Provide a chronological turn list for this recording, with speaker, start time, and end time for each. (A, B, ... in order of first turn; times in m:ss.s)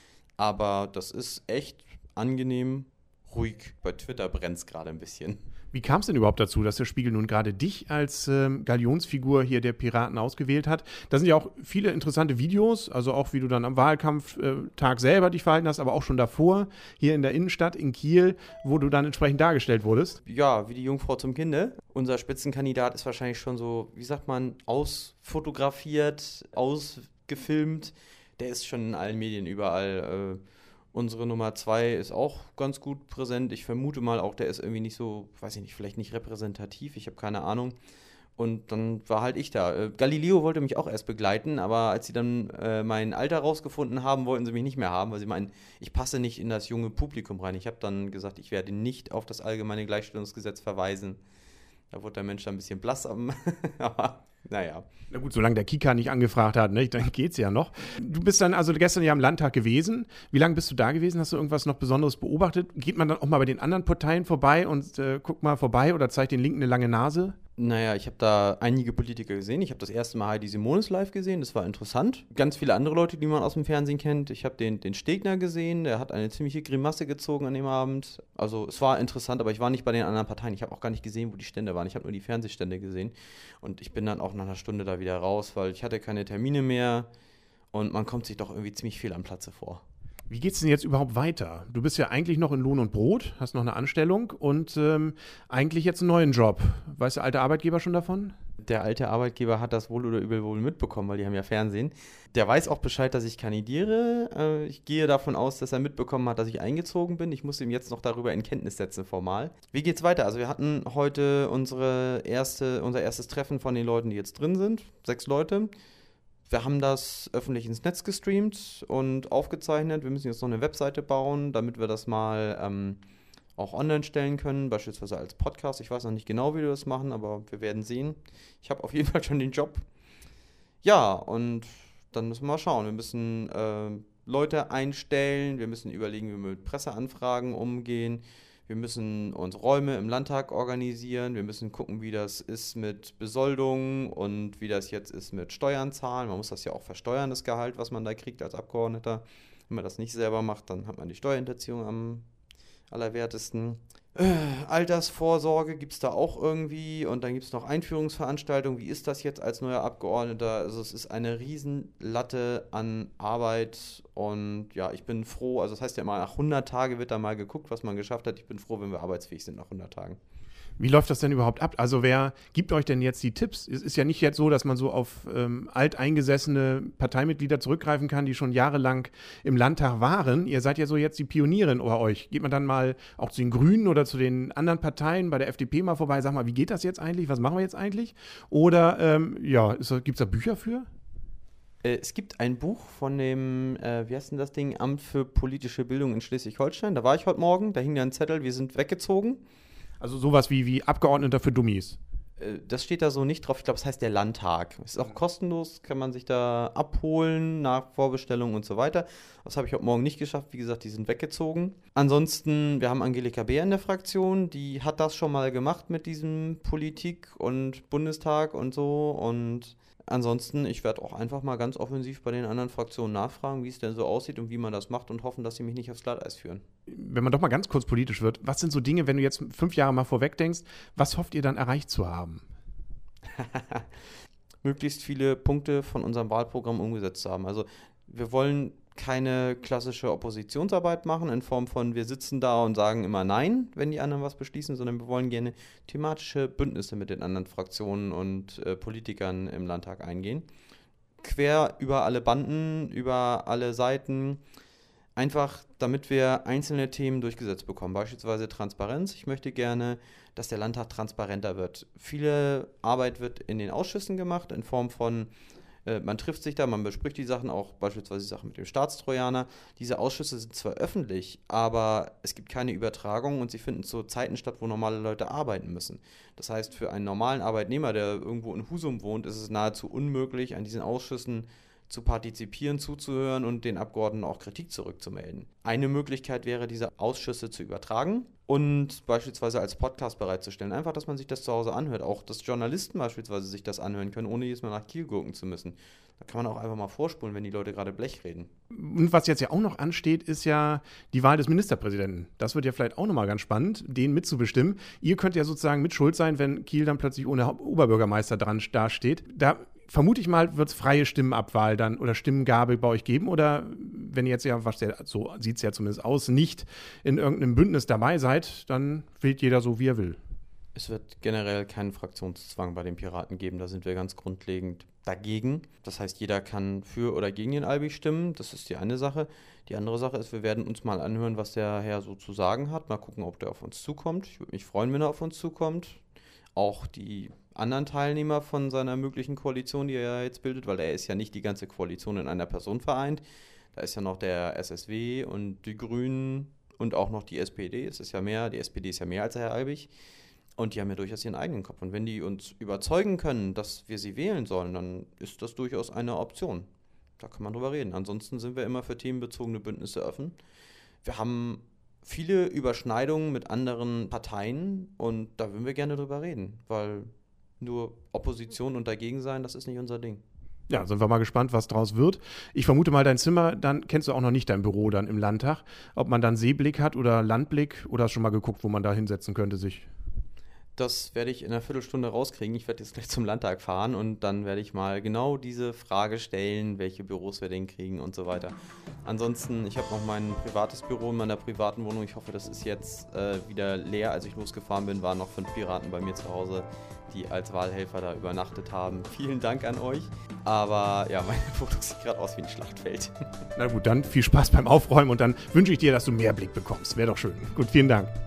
0:00.4-0:05.4 A
0:05.7-0:20.2 B
0:20.2-0:30.4 A
0:30.9-0:37.8 A
0:38.4-0:51.2 A
0:51.9-0:54.9 A
0:55.1-1:07.4 B
1:07.6-1:27.1 A
1:27.7-1:29.8 A
1:30.3-1:38.3 B
1:38.6-1:55.7 A
1:56.5-2:03.0 A
2:03.6-2:09.8 A
2:10.8-2:32.2 A
2:32.9-2:50.2 A
2:50.8-3:10.9 B
3:11.8-3:19.4 A
3:20.0-3:22.0 B
3:22.4-3:46.6 A
3:46.9-3:52.4 B
3:53.3-3:53.9 A
3:54.6-4:10.5 A
4:11.2-4:14.4 A
4:15.1-4:25.3 A
4:25.8-4:58.5 A
4:58.7-5:20.2 B
5:20.7-5:36.0 A
5:36.5-5:43.2 A
5:43.7-5:49.9 A
5:50.6-5:56.7 A
5:57.2-6:00.4 A
6:01.0-6:10.2 A
6:10.7-6:19.9 B
6:20.8-6:43.2 A
6:43.6-6:48.1 B